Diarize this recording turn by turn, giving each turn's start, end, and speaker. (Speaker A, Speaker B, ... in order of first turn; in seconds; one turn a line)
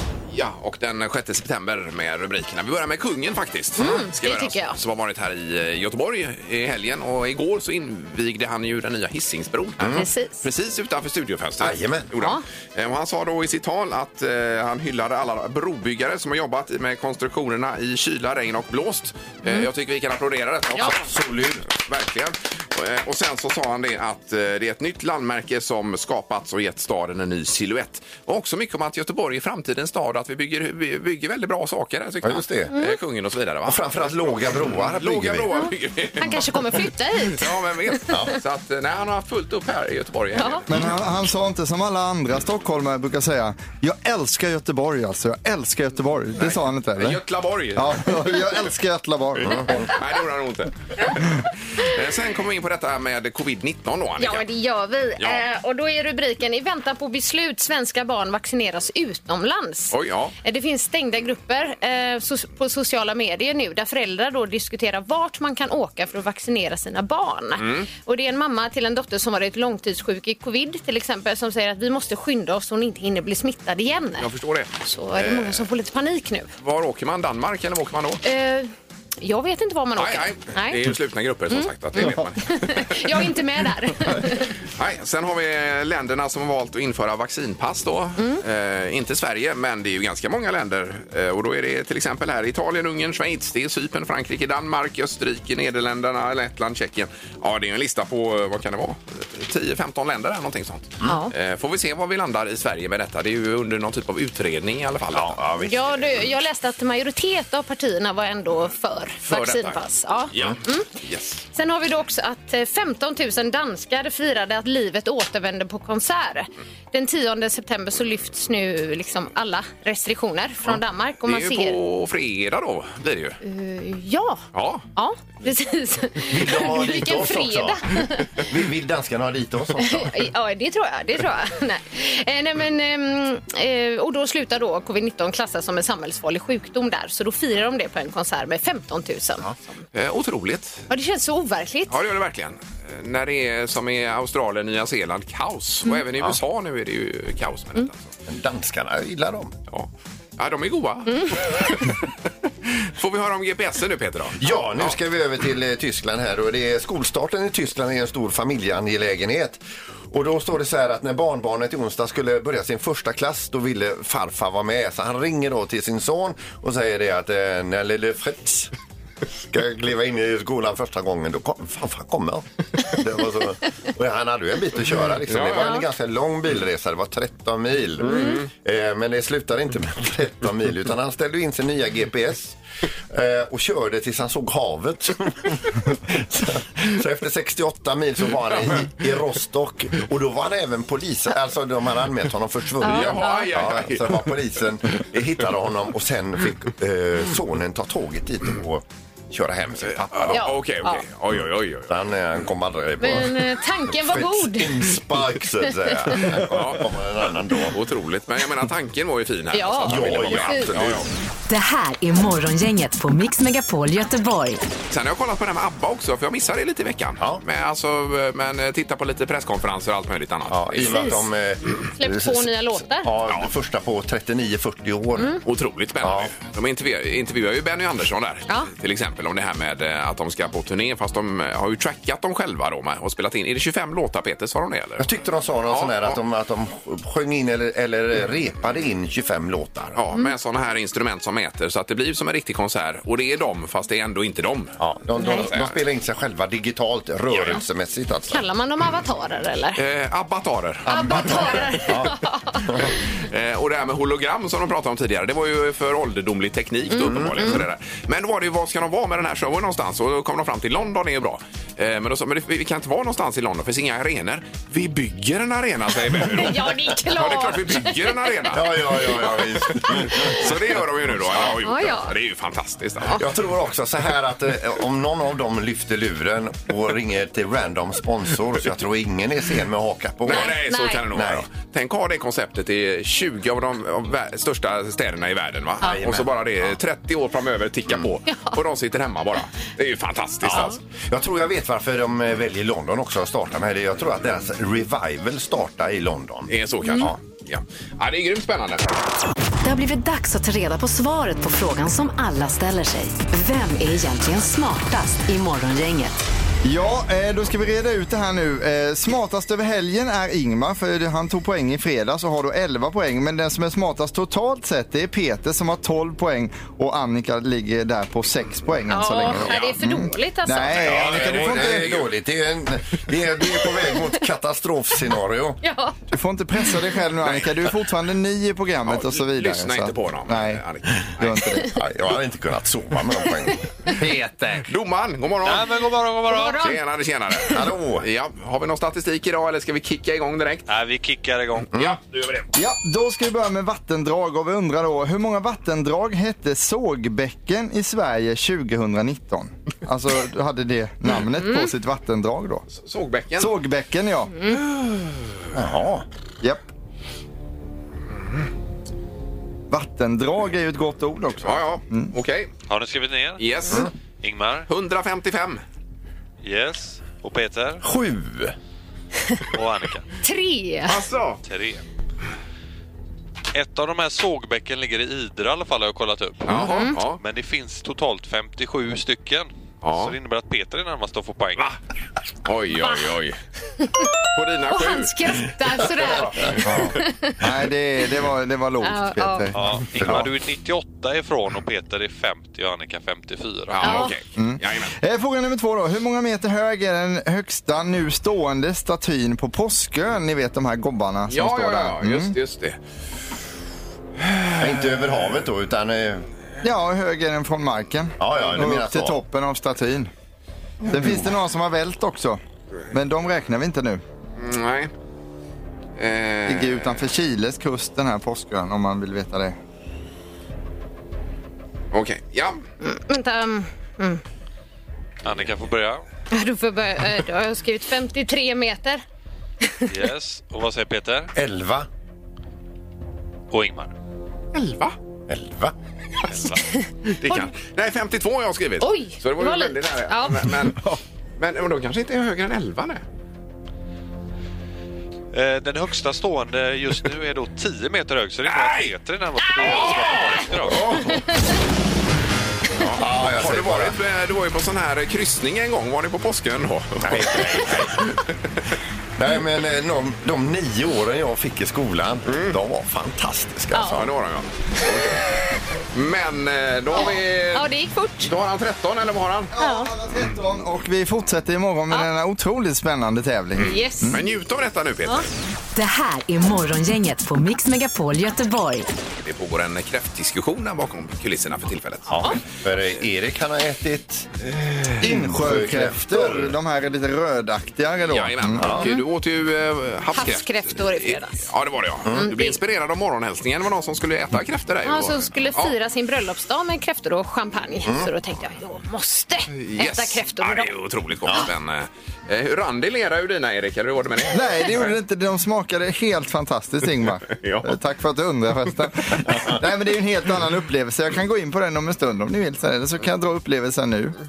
Speaker A: 0.3-21.1
Speaker B: 3.8-4.8
Speaker C: 9.8-10.1
Speaker B: 10.0-10.4
Speaker C: 11.6-12.1
Speaker B: 12.2-12.4
Speaker C: 20.8-21.7
Speaker A: 21.7-40.8
Speaker C: 32.2-32.7
Speaker C: 33.6-35.5
Speaker B: 35.5-38.2
Speaker B: 40.4-40.6
Speaker D: 40.7-47.2
Speaker A: 46.4-48.3
Speaker D: 47.7-49.9
Speaker C: 49.4-49.7
Speaker A: 49.8-54.4
Speaker B: 54.2-74.3
Speaker A: 59.9-60.3
Speaker A: 67.6-67.9
Speaker A: 74.2-75.6
Speaker B: 74.8-76.5
Speaker A: 76.6-78.2
Speaker B: 78.2-80.8
Speaker A: 80.0-83.3
Speaker B: 81.5-84.5
Speaker A: 84.2-105.4
Speaker B: 101.0-101.3
Speaker C: 105.1-106.0
Speaker B: 105.6-110.9
Speaker A: 109.2-109.8
Speaker A: 110.3-111.4
Speaker B: 111.5-121.8
Speaker A: 121.2-123.4
Speaker B: 123.4-128.3
Speaker A: 124.5-124.8
Speaker C: 126.3-130.2
Speaker B: 129.8-139.5
Speaker A: 139.9-140.9
Speaker B: 140.9-141.9
Speaker A: 141.9-148.1
Speaker C: 148.2-149.5
Speaker A: 149.7-152.0
Speaker A: 152.7-154.9
Speaker C: 154.4-159.6
Speaker C: 160.1-168.7
Speaker C: 169.5-182.6
Speaker A: 175.3-175.7
Speaker A: 178.1-178.4
Speaker B: 178.1-178.4
Speaker C: 183.1-200.5
Speaker B: 192.8-193.5
Speaker A: 192.8-194.3
Speaker A: 199.9-201.9
Speaker B: 200.3-201.0
Speaker C: 201.9-207.8
Speaker B: 203.0-204.9
Speaker A: 206.3-206.9
Speaker A: 207.7-211.1
Speaker B: 209.5-210.7
Speaker C: 209.9-211.1
Speaker E: 211.5-214.6
Speaker A: 214.9-221.2
Speaker C: 220.5-225.4
Speaker B: 220.8-221.2
Speaker B: 221.9-223.1
Speaker A: 225.4-235.1
Speaker C: 226.0-226.3
Speaker C: 235.0-240.0
Speaker A: 235.7-236.2
Speaker A: 239.9-245.8
Speaker C: 244.8-248.4
Speaker B: 245.2-245.5
Speaker A: 247.3-247.6
Speaker B: 248.3-249.8
Speaker A: 249.8-251.8
Speaker B: 250.9-252.7
Speaker C: 250.9-252.9
Speaker A: 252.8-273.2
Speaker B: 256.9-257.6
Speaker C: 257.0-257.6
Speaker B: 266.3-268.5
Speaker C: 268.5-271.5
Speaker B: 271.6-272.1
Speaker C: 273.1-280.6
Speaker A: 280.2-290.8
Speaker B: 280.3-281.0
Speaker C: 281.1-281.4
Speaker C: 285.8-286.8
Speaker B: 288.3-288.6
Speaker C: 290.4-297.2
Speaker A: 296.5-299.0
Speaker E: 299.6-306.2
Speaker D: 306.6-321.9
Speaker B: 318.9-321.0
Speaker A: 319.3-319.8
Speaker A: 320.8-322.1
Speaker C: 320.9-325.6
Speaker B: 325.6-325.9
Speaker D: 326.1-330.6
Speaker A: 327.2-327.5
Speaker A: 328.9-331.4
Speaker D: 331.2-331.7
Speaker C: 331.8-333.6
Speaker A: 334.0-335.9
Speaker F: 335.4-336.6
Speaker B: 336.3-336.8
Speaker A: 336.6-340.6
Speaker C: 337.5-338.1
Speaker F: 340.7-341.7
Speaker A: 341.7-342.4
Speaker D: 342.5-352.6
Speaker B: 351.4-351.7
Speaker A: 352.7-353.5
Speaker D: 353.4-354.3
Speaker C: 355.5-356.0
Speaker D: 356.4-356.7
Speaker D: 359.7-362.1
Speaker A: 361.4-362.5
Speaker F: 362.7-364.7
Speaker A: 363.4-363.9
Speaker A: 364.7-365.6
Speaker F: 366.4-367.8
Speaker C: 367.8-368.5
Speaker F: 369.5-370.1
Speaker B: 370.2-370.9
Speaker A: 370.9-371.4
Speaker F: 371.4-371.8
Speaker F: 373.5-381.7
Speaker A: 376.4-377.2
Speaker B: 376.6-377.0
Speaker A: 379.8-380.1
Speaker A: 382.4-383.4
Speaker B: 383.8-384.1
Speaker A: 384.3-385.1
Speaker B: 384.7-387.4
Speaker A: 386.0-386.5
Speaker D: 386.6-390.3
Speaker B: 388.8-389.5
Speaker F: 389.5-394.1
Speaker C: 390.0-390.3
Speaker A: 393.7-394.9
Speaker B: 393.8-394.1
Speaker D: 394.4-402.4
Speaker A: 401.3-402.8
Speaker A: 404.3-404.9
Speaker C: 404.6-406.3
Speaker D: 406.6-410.1
Speaker C: 408.2-409.2
Speaker D: 410.9-412.4
Speaker D: 412.9-414.0
Speaker A: 414.4-414.9
Speaker A: 416.0-417.0
Speaker D: 416.4-419.6
Speaker A: 421.9-422.6
Speaker B: 422.8-424.2
Speaker F: 425.2-426.0
Speaker B: 426.3-429.0
Speaker F: 429.9-431.3
Speaker C: 431.3-431.9
Speaker F: 433.5-433.9
Speaker A: 434.5-434.9
Speaker C: 435.3-435.7
Speaker F: 436.3-436.6
Speaker B: 436.7-437.5
Speaker A: 437.2-440.8
Speaker B: 438.8-440.5
Speaker A: 441.4-443.0
Speaker F: 445.3-451.0
Speaker A: 448.4-448.9
Speaker A: 449.6-450.8
Speaker C: 450.7-451.2
Speaker A: 452.8-458.3
Speaker C: 452.8-453.9
Speaker C: 457.0-458.0
Speaker C: 459.2-464.1
Speaker A: 462.3-462.6
Speaker B: 463.7-464.0
Speaker A: 463.9-465.2
Speaker A: 465.9-467.7
Speaker B: 466.9-468.3
Speaker A: 468.2-469.5
Speaker D: 469.5-474.2
Speaker B: 469.6-469.9
Speaker B: 473.6-474.2
Speaker A: 474.1-475.2
Speaker E: 475.8-478.9
Speaker A: 479.2-482.2
Speaker C: 482.1-484.3
Speaker A: 484.5-484.8
Speaker C: 485.0-486.5
Speaker D: 485.0-488.7
Speaker A: 488.1-495.7
Speaker C: 488.6-488.9
Speaker B: 490.1-491.4
Speaker C: 492.0-492.3
Speaker B: 492.1-492.6
Speaker B: 494.8-500.7
Speaker C: 497.8-498.1
Speaker A: 499.5-504.9
Speaker D: 504.3-514.1
Speaker A: 507.3-507.7